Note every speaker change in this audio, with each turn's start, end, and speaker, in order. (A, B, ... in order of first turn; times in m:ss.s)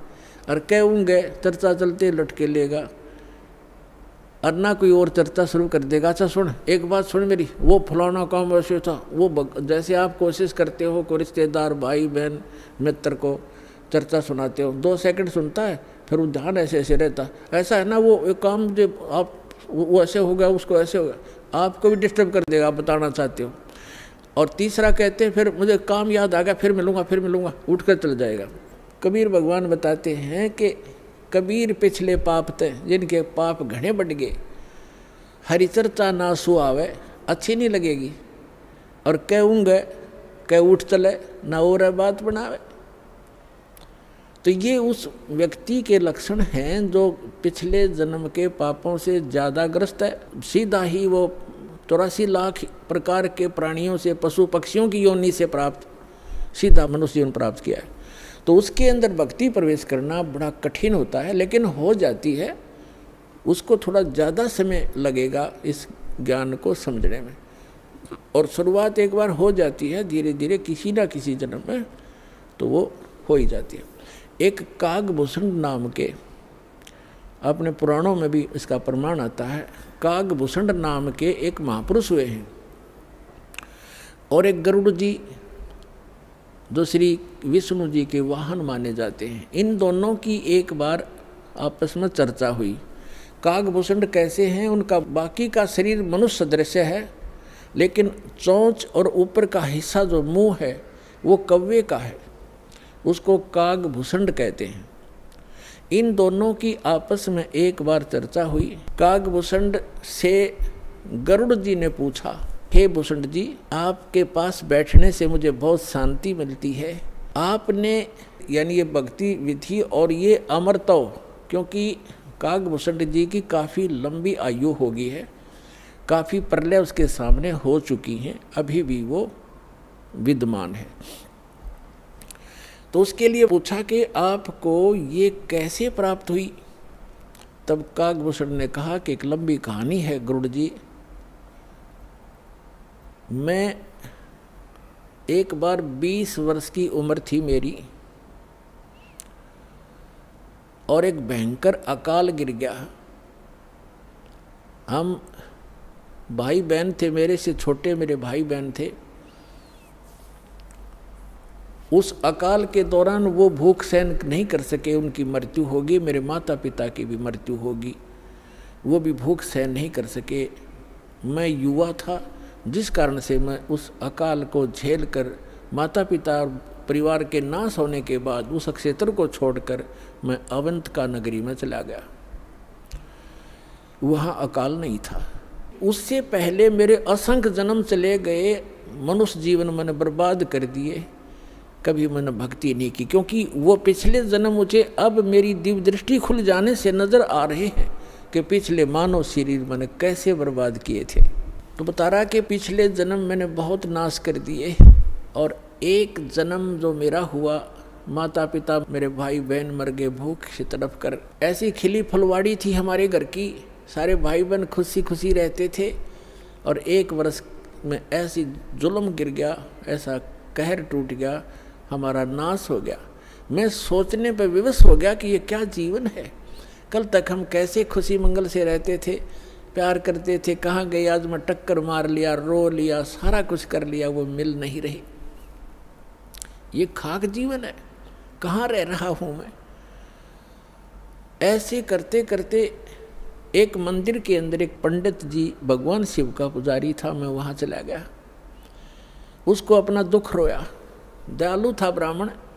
0:00.5-0:02.9 A
0:04.4-0:23.5 A
0:24.4-0:30.8 A
0:31.3-0:34.4 A
0:35.4-0:38.2 A
0:39.0-0:39.9 A
0:40.4-0:42.6 A
0:44.4-0:55.9 A
0:56.5-0:57.9 A
0:58.4-1:02.6 A
1:03.4-1:07.4 A
1:08.3-1:11.9 A
1:12.6-1:13.9 A
1:14.4-1:16.1 A
1:17.4-1:22.5 A
1:24.3-1:25.3 A
1:26.7-1:31.0 A
1:31.6-1:32.8 A
1:33.4-1:37.1 A
1:37.8-1:42.2 A
1:43.0-1:44.9 A
1:45.9-2:05.3 A
2:06.1-2:09.3 A
2:10.2-2:11.0 A
2:12.9-2:16.5 A
2:17.6-2:20.7 A
2:23.3-2:23.8 A
2:25.3-2:27.8 A
2:30.9-2:32.9 A
2:34.9-2:35.2 A
2:36.3-2:38.9 A
2:41.9-2:48.0 A
2:48.8-2:50.5 A
2:51.2-3:02.0 A
3:04.0-3:05.2 A
3:05.8-3:11.1 A
3:11.8-3:36.0 A
3:36.6-3:46.3 A
3:46.9-3:49.2 A
3:49.7-3:55.0 A
3:56.7-3:57.8 A
3:58.4-3:59.5 A
4:01.4-4:02.8 A
4:03.6-4:08.1 A
4:09.5-4:10.7 A
4:11.3-4:12.3 A